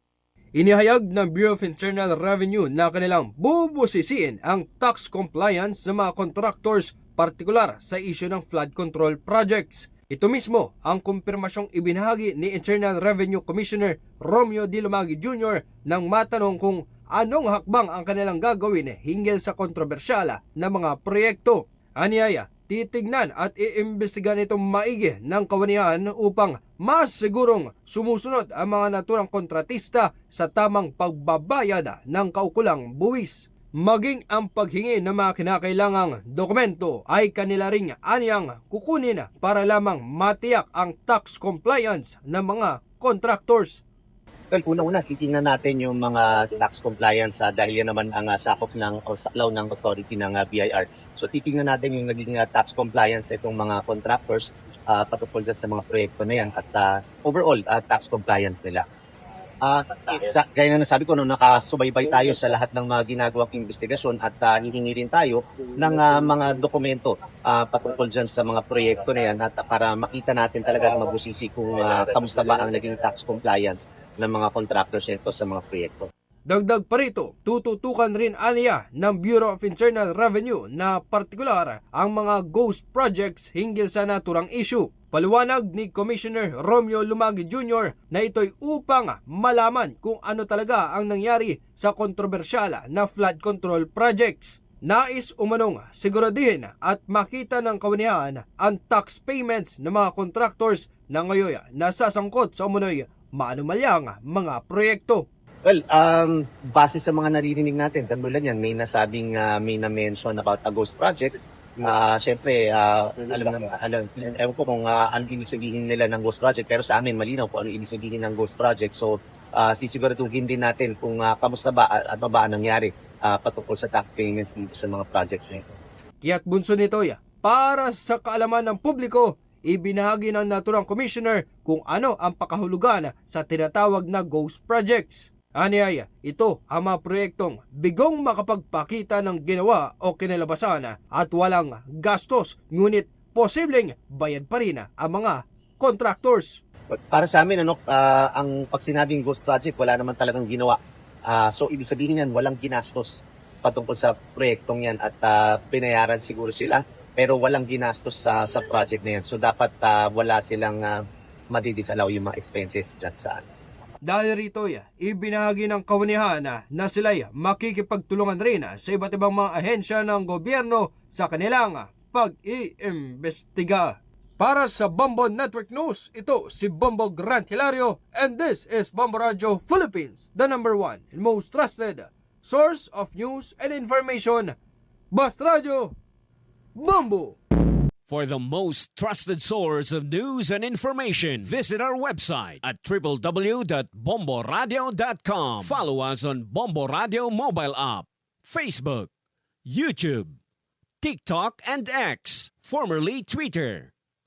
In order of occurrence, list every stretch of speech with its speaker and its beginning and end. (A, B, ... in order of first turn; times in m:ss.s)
0:00.6-0:43.8 A
0:44.5-0:58.8 B
0:59.6-1:16.1 B
1:16.5-1:45.3 A
1:45.6-2:05.7 B
2:06.2-2:26.6 A
2:26.9-2:41.0 B
2:41.5-2:43.4 B
2:44.0-3:04.6 A
3:05.1-3:05.9 A
3:06.8-3:07.4 A
3:08.1-3:19.1 C
3:19.7-3:20.3 C
3:21.0-3:23.9 C